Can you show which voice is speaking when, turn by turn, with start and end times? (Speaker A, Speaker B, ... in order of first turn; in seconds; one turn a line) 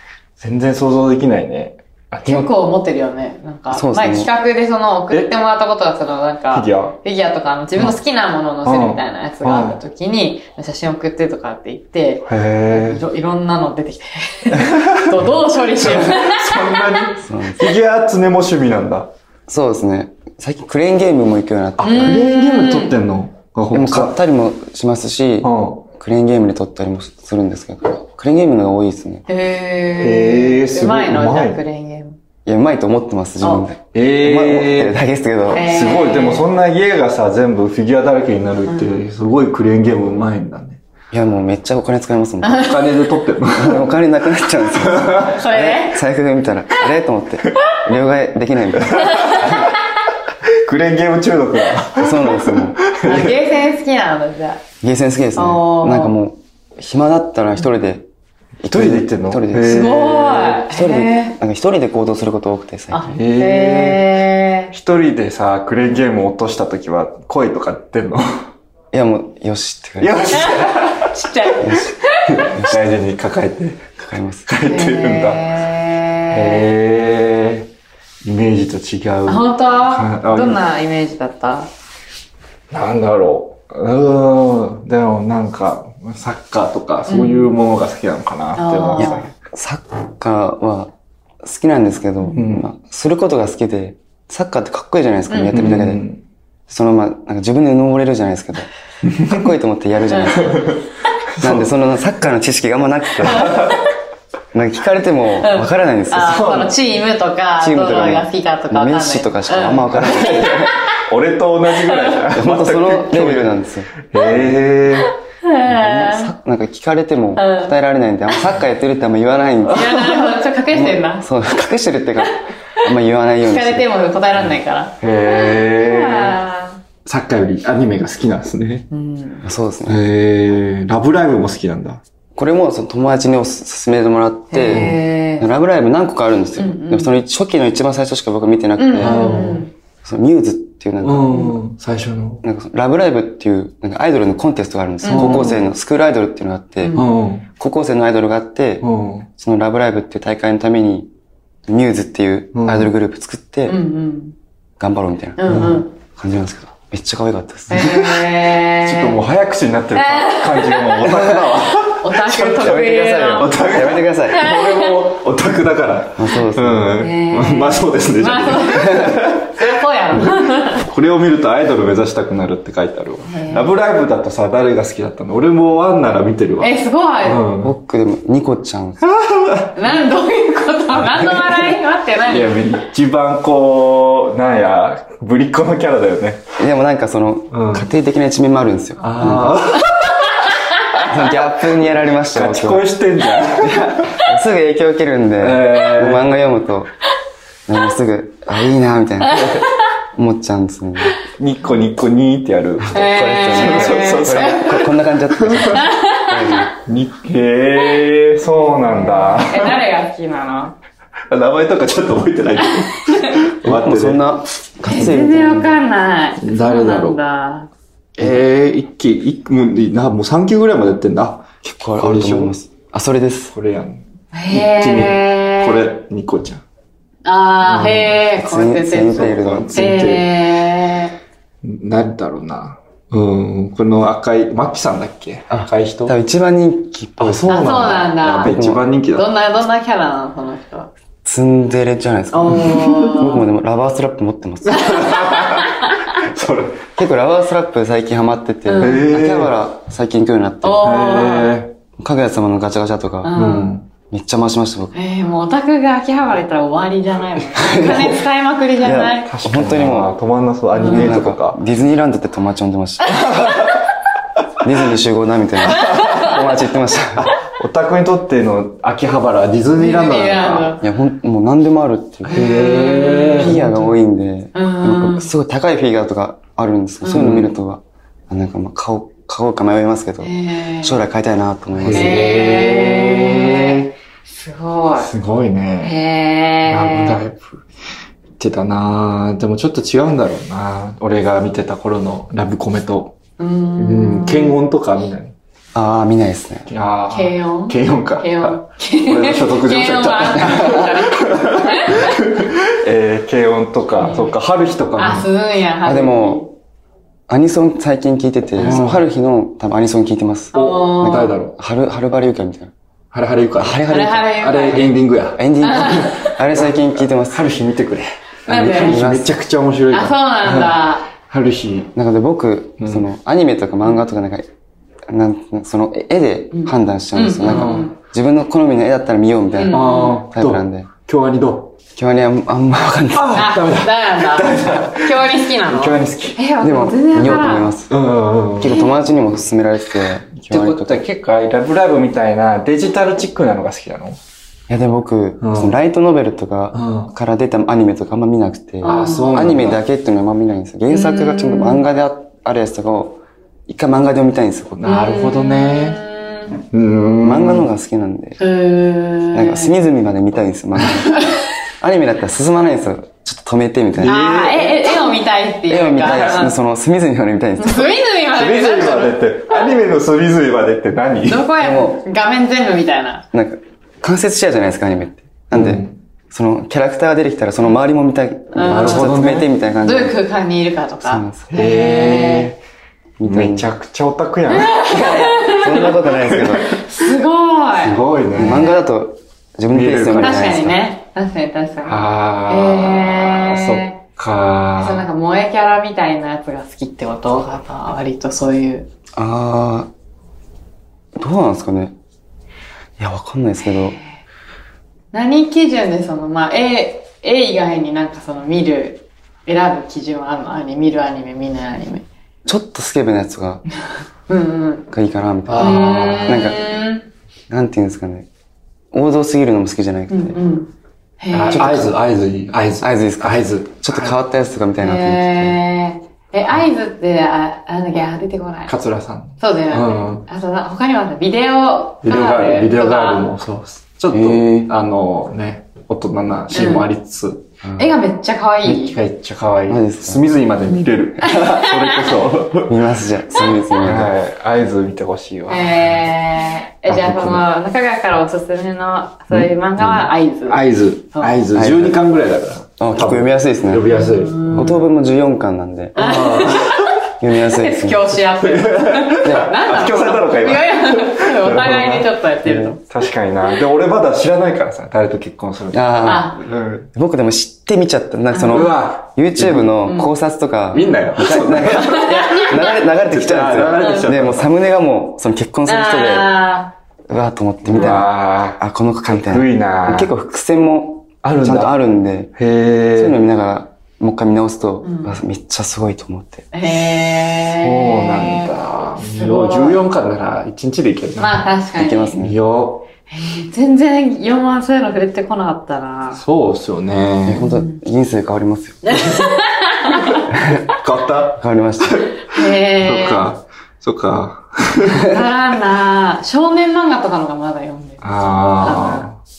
Speaker A: 0.4-2.5
Speaker B: 2.2-17.1
Speaker C: 3.7-4.3
Speaker A: 6.5-7.0
Speaker A: 8.6-9.8
Speaker A: 12.3-13.0
Speaker A: 14.5-19.1
Speaker C: 17.2-17.8
Speaker C: 19.5-22.2
Speaker A: 21.8-24.1
Speaker B: 21.8-22.9
Speaker C: 23.7-29.2
Speaker A: 25.4-25.9
Speaker B: 29.3-32.2
Speaker A: 30.0-31.6
Speaker C: 32.4-35.7
Speaker B: 33.4-33.7
Speaker A: 33.9-35.0
Speaker B: 35.5-36.5
Speaker A: 35.5-40.8
Speaker B: 38.7-39.0
Speaker C: 41.1-42.8
Speaker A: 42.5-43.9
Speaker C: 43.5-49.6
Speaker A: 44.7-45.4
Speaker B: 45.3-46.0
Speaker A: 48.9-49.7
Speaker B: 49.1-49.5
Speaker A: 50.6-53.4
Speaker C: 52.0-52.8
Speaker B: 53.0-54.6
Speaker C: 54.8-58.1
Speaker B: 55.3-56.1
Speaker C: 58.6-60.0
Speaker A: 58.7-60.6
Speaker B: 59.6-61.3
Speaker C: 60.6-63.1
Speaker B: 62.9-64.7
Speaker A: 63.1-64.2
Speaker A: 64.7-68.5
Speaker C: 68.9-70.3
Speaker A: 70.0-71.1
Speaker B: 70.3-72.5
Speaker C: 71.6-71.9
Speaker A: 72.3-73.9
Speaker C: 74.0-74.5
Speaker A: 74.5-75.5
Speaker B: 74.7-76.7
Speaker A: 76.3-77.7
Speaker A: 78.2-80.6
Speaker B: 79.2-81.7
Speaker A: 82.7-89.2
Speaker B: 87.1-87.5
Speaker B: 88.5-89.3
Speaker C: 89.0-96.0
Speaker A: 92.3-92.7
Speaker B: 95.3-95.7
Speaker A: 95.5-96.2
Speaker C: 96.7-98.7
Speaker A: 99.0-99.4
Speaker C: 99.2-100.8
Speaker B: 100.1-100.5
Speaker A: 100.4-100.8
Speaker A: 101.3-101.7
Speaker C: 101.4-103.6
Speaker A: 103.2-103.8
Speaker B: 103.3-103.7
Speaker C: 104.5-106.5
Speaker B: 105.4-111.0
Speaker A: 106.2-106.8
Speaker C: 107.6-110.7
Speaker A: 109.9-115.1
Speaker B: 111.8-112.2
Speaker C: 112.3-114.5
Speaker B: 114.2-114.4
Speaker B: 115.0-116.3
Speaker C: 115.6-120.2
Speaker B: 117.3-117.7
Speaker B: 119.7-121.2
Speaker C: 120.7-123.9
Speaker B: 123.4-126.8
Speaker A: 125.0-126.4
Speaker A: 127.0-128.8
Speaker B: 128.9-129.5
Speaker C: 129.4-130.0
Speaker A: 129.8-132.0
Speaker C: 132.3-139.3
Speaker B: 134.5-135.5
Speaker A: 134.7-135.0
Speaker B: 136.6-137.1
Speaker B: 138.8-139.7
Speaker A: 139.0-139.7
Speaker C: 140.0-141.6
Speaker A: 141.0-142.4
Speaker C: 142.4-147.0
Speaker B: 145.0-145.6
Speaker A: 145.1-145.6
Speaker B: 146.8-147.1
Speaker A: 146.9-147.5
Speaker C: 147.6-148.8
Speaker A: 148.8-149.3
Speaker C: 149.4-151.1
Speaker C: 151.7-153.8
Speaker A: 152.5-152.9
Speaker B: 153.7-154.3
Speaker C: 154.8-158.0
Speaker B: 155.4-155.9
Speaker A: 155.5-155.8
Speaker B: 157.7-159.2
Speaker A: 157.7-177.7
Speaker B: 159.9-161.0
Speaker C: 161.1-161.5
Speaker B: 162.0-165.0
Speaker C: 162.3-164.5
Speaker C: 166.2-167.0
Speaker B: 166.9-170.8
Speaker B: 173.2-173.7
Speaker B: 176.6-177.4
Speaker C: 177.6-179.1
Speaker A: 179.1-179.7
Speaker B: 179.7-182.6
Speaker A: 181.1-181.7
Speaker A: 182.2-186.4
Speaker C: 186.6-189.6
Speaker A: 187.5-187.9
Speaker A: 189.0-194.3
Speaker C: 191.0-192.9
Speaker C: 193.4-196.9
Speaker A: 195.4-196.3
Speaker C: 197.7-199.6
Speaker C: 200.1-201.2
Speaker A: 201.4-205.8
Speaker B: 202.9-204.8
Speaker C: 202.9-206.7
Speaker B: 205.7-206.7
Speaker A: 206.8-209.8
Speaker B: 208.8-210.8
Speaker A: 211.3-214.2
Speaker B: 212.9-213.3
Speaker C: 213.6-215.8
Speaker B: 214.8-217.7
Speaker A: 216.4-217.2
Speaker A: 218.2-222.5
Speaker C: 221.6-223.5
Speaker A: 223.5-226.6
Speaker B: 224.3-225.8
Speaker B: 227.2-231.1
Speaker A: 227.7-228.1
Speaker C: 228.4-229.7
Speaker A: 229.1-230.4
Speaker A: 231.6-236.1
Speaker C: 235.5-238.8
Speaker A: 237.2-239.3
Speaker B: 237.5-238.5
Speaker B: 239.1-240.9
Speaker C: 241.2-245.3
Speaker B: 242.3-243.4
Speaker A: 242.6-243.1
Speaker A: 244.7-246.9
Speaker B: 244.9-246.2
Speaker C: 246.9-251.1
Speaker B: 248.7-249.1
Speaker A: 248.8-249.6
Speaker B: 250.6-251.5
Speaker A: 250.8-251.7
Speaker C: 252.0-253.4
Speaker B: 253.2-253.7
Speaker A: 253.3-253.9
Speaker C: 254.1-254.9
Speaker B: 254.9-259.3
Speaker C: 257.6-258.2
Speaker C: 258.8-260.1
Speaker A: 259.2-261.6
Speaker B: 260.7-261.2
Speaker C: 260.8-263.7
Speaker A: 263.1-263.8
Speaker C: 264.6-267.3
Speaker A: 265.6-266.4
Speaker B: 265.8-266.3
Speaker A: 267.1-270.8
Speaker B: 269.8-270.8
Speaker C: 270.8-272.4
Speaker A: 272.2-273.9
Speaker B: 272.3-273.6
Speaker C: 273.4-282.2
Speaker B: 274.5-275.3
Speaker B: 277.0-277.3
Speaker A: 277.1-277.5
Speaker B: 280.2-281.0
Speaker A: 281.7-283.9
Speaker B: 281.9-285.1
Speaker A: 285.0-285.9
Speaker B: 285.8-287.2
Speaker A: 286.7-287.6
Speaker A: 288.4-293.2
Speaker B: 293.4-294.6
Speaker A: 293.8-295.3
Speaker C: 295.7-296.7
Speaker A: 296.7-305.3
Speaker B: 297.1-302.2
Speaker B: 304.0-304.3
Speaker B: 305.0-306.5
Speaker C: 305.8-306.4
Speaker C: 307.3-312.7
Speaker A: 308.6-309.0
Speaker B: 310.5-311.4
Speaker A: 310.5-311.6
Speaker A: 313.1-321.9
Speaker C: 313.6-314.3
Speaker B: 313.9-314.9
Speaker C: 315.4-317.5
Speaker B: 315.6-316.3
Speaker B: 318.5-319.0
Speaker C: 318.5-319.4
Speaker B: 319.9-321.1
Speaker C: 321.9-324.4
Speaker A: 322.8-323.1
Speaker C: 325.1-330.9
Speaker B: 326.5-327.9
Speaker A: 327.4-327.9
Speaker B: 329.5-330.2
Speaker A: 329.7-331.7
Speaker C: 331.9-333.5
Speaker A: 333.1-336.4
Speaker B: 333.3-337.8
Speaker C: 336.6-337.9
Speaker A: 337.9-338.9
Speaker C: 338.6-341.0
Speaker A: 340.3-344.2
Speaker C: 344.7-354.8
Speaker A: 345.4-345.8
Speaker A: 346.7-347.1
Speaker B: 348.8-349.4
Speaker A: 348.8-349.8
Speaker B: 350.9-351.8
Speaker A: 354.8-356.0
Speaker B: 354.8-356.6
Speaker A: 356.7-357.7
Speaker C: 357.2-358.4
Speaker B: 358.4-359.7
Speaker C: 359.3-364.2
Speaker A: 364.0-365.1
Speaker B: 364.0-366.6
Speaker C: 365.7-367.9
Speaker A: 366.1-366.3
Speaker B: 367.6-369.7
Speaker A: 368.3-371.5
Speaker B: 371.2-373.2
Speaker C: 371.6-372.0
Speaker C: 373.3-380.1
Speaker A: 375.5-376.0
Speaker B: 378.5-379.1
Speaker A: 378.6-379.5
Speaker B: 379.8-382.5
Speaker C: 381.0-381.5
Speaker A: 381.5-382.6
Speaker C: 383.2-383.7
Speaker A: 383.2-385.2
Speaker B: 384.5-386.0
Speaker C: 384.8-386.8
Speaker A: 386.1-386.8
Speaker B: 386.7-388.8
Speaker A: 387.8-388.7
Speaker C: 388.3-390.8
Speaker A: 389.7-390.6
Speaker B: 390.2-394.0
Speaker A: 391.9-395.1
Speaker B: 394.8-398.9
Speaker C: 399.1-399.9
Speaker C: 401.1-401.9
Speaker C: 403.0-404.0
Speaker B: 403.6-404.2
Speaker B: 405.1-412.1
Speaker C: 412.4-413.6
Speaker B: 414.3-414.9
Speaker C: 414.9-416.6
Speaker A: 415.5-416.4
Speaker B: 415.6-417.1
Speaker C: 417.5-418.3
Speaker C: 418.9-420.4
Speaker B: 420.1-421.8
Speaker A: 421.3-424.2
Speaker C: 421.5-421.9
Speaker C: 422.8-425.6
Speaker B: 424.8-428.7
Speaker A: 428.7-430.2
Speaker B: 429.4-433.3
Speaker A: 432.0-437.5
Speaker C: 434.1-434.7
Speaker B: 436.5-436.9
Speaker C: 437.6-437.9
Speaker B: 437.8-439.0
Speaker A: 438.6-442.8
Speaker C: 439.7-440.2
Speaker B: 441.2-442.1
Speaker C: 442.7-444.1
Speaker A: 443.4-446.1
Speaker B: 445.5-451.4
Speaker A: 446.9-447.4
Speaker A: 450.5-454.8
Speaker C: 451.5-452.0
Speaker C: 452.8-454.0
Speaker B: 453.9-454.8
Speaker C: 454.5-456.1
Speaker B: 455.9-462.8
Speaker A: 455.9-456.9
Speaker C: 457.2-458.1
Speaker A: 458.4-462.1
Speaker C: 459.2-459.5
Speaker C: 462.4-462.7
Speaker A: 462.9-466.9
Speaker C: 465.7-466.3
Speaker B: 466.0-466.4
Speaker C: 466.9-476.4
Speaker B: 468.3-468.7
Speaker A: 468.5-469.7
Speaker B: 469.8-470.1
Speaker A: 470.7-474.5
Speaker B: 470.7-472.6
Speaker B: 473.8-474.1
Speaker B: 475.6-476.7
Speaker C: 477.1-482.3
Speaker A: 477.6-480.1
Speaker A: 481.2-481.7
Speaker A: 482.4-483.2
Speaker C: 482.9-486.5
Speaker B: 484.8-485.2
Speaker B: 486.5-488.5
Speaker A: 487.4-491.5
Speaker B: 489.1-489.8
Speaker B: 491.2-492.2
Speaker C: 491.8-492.4
Speaker A: 492.2-492.9
Speaker B: 493.1-496.2
Speaker A: 496.1-497.5
Speaker C: 497.2-499.2
Speaker B: 497.4-497.8
Speaker B: 498.8-500.3
Speaker C: 500.3-500.6
Speaker A: 500.4-505.1
Speaker C: 501.4-502.1
Speaker B: 502.3-503.3
Speaker B: 504.8-509.1
Speaker A: 508.0-509.2